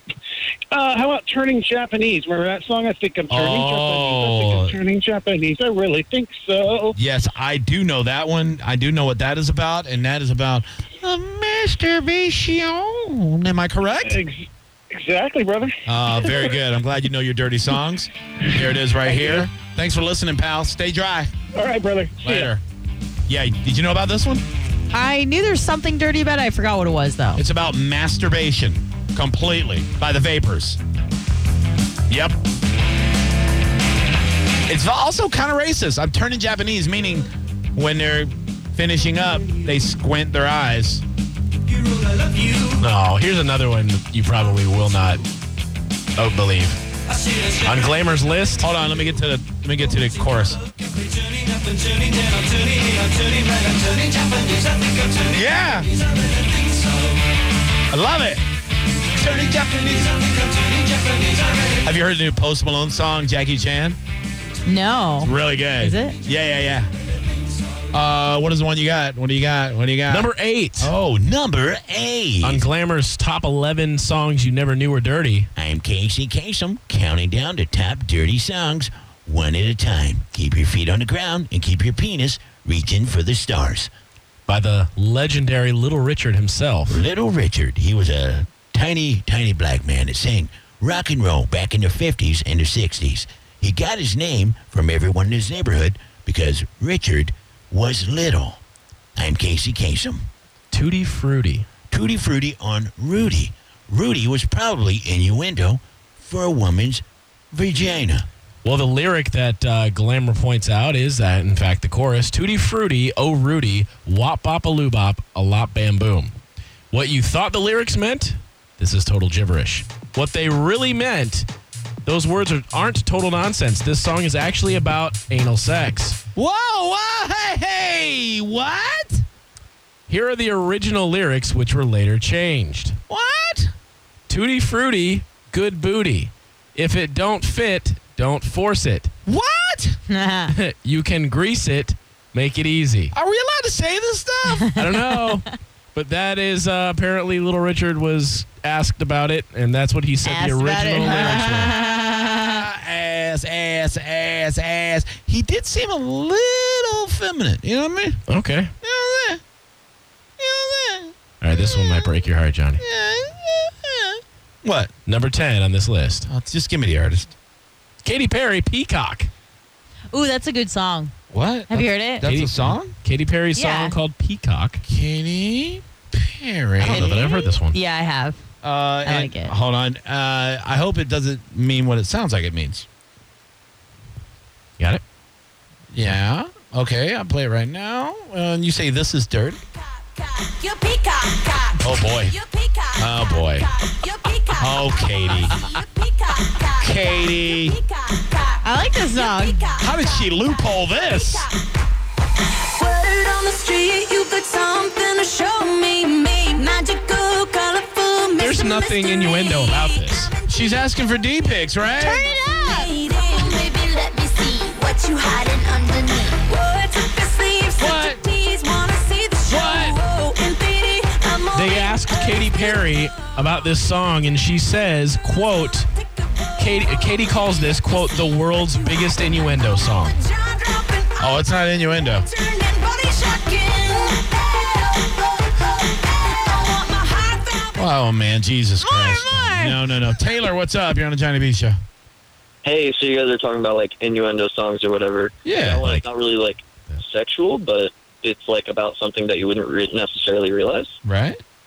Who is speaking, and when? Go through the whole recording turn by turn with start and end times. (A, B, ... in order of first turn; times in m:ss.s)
0:00.7-0:06.9 A
0:03.3-0:04.8 B
0:07.0-0:14.2 B
0:14.0-0:16.4 A
0:15.8-0:21.3 B
0:19.0-0:19.5 A
0:21.5-0:22.5 A
0:22.2-0:22.6 B
0:23.3-0:24.4 B
0:24.9-0:27.4 C
0:27.4-0:30.8 B
0:32.1-0:32.4 B
0:34.7-0:41.0 B
0:42.6-0:45.2 D
0:46.2-0:46.8 D
0:47.5-0:48.6 D
0:48.6-0:50.6 B
0:55.2-0:55.9 B
0:57.9-0:58.4 B
0:59.1-1:00.3 B
1:01.1-1:04.0 B
1:04.6-1:06.2 C
1:05.2-1:06.9 B
1:07.9-1:12.6 B
1:10.1-1:10.9 D
1:12.4-1:15.5 D
1:15.6-1:23.9 B
1:24.5-1:27.1 D
1:26.9-1:38.6 B
1:39.2-1:40.3 B
1:40.7-1:41.7 D
1:41.9-1:48.3 B
1:48.6-1:56.4 D
1:56.9-2:01.5 D
2:02.0-2:06.2 D
2:06.3-2:09.2 B
2:10.1-2:13.0 D
2:13.1-2:13.7 B
2:14.3-2:19.1 D
2:19.3-2:20.0 B
2:20.1-2:20.5 C
2:20.5-2:23.1 D
2:23.1-2:24.7 B
2:24.5-2:25.2 C
2:24.7-2:31.7 D
2:30.2-2:32.6 C
2:31.0-2:38.2 B
2:38.3-2:38.7 D
2:38.8-2:39.4 B
2:40.4-2:42.1 B
2:41.4-2:42.8 D
2:42.8-2:44.9 B
2:45.0-2:46.3 D
2:46.3-2:47.3 B
2:48.0-2:49.3 D
2:50.1-2:51.1 C
2:51.3-2:53.0 B
2:51.7-2:52.3 C
2:52.2-2:54.8 D
2:53.5-2:54.0 C
2:54.8-2:57.3 B
2:56.8-2:57.8 D
2:56.9-2:58.4 C
2:58.6-3:02.8 B
2:59.0-2:59.5 C
3:05.9-3:09.6 B
3:10.0-3:21.6 E
3:11.8-3:12.4 B
3:13.0-3:13.7 B
3:14.5-3:15.6 B
3:16.8-3:17.8 B
3:18.6-3:19.6 C
3:19.8-3:21.5 B
3:22.7-3:30.4 E
3:28.4-3:30.3 D
3:30.4-3:32.2 B
3:31.9-3:32.9 C
3:32.2-3:42.9 E
3:37.8-3:38.2 B
3:39.4-3:40.0 B
3:41.5-3:45.9 D
3:46.6-3:50.2 D
3:48.0-3:49.3 E
3:50.0-3:51.3 E
3:51.2-3:52.2 B
3:52.2-3:57.8 E
3:57.8-4:01.8 B
3:58.8-3:59.7 C
4:02.6-4:10.9 F
4:05.4-4:05.8 B
4:05.6-4:06.1 D
4:11.0-4:11.4 B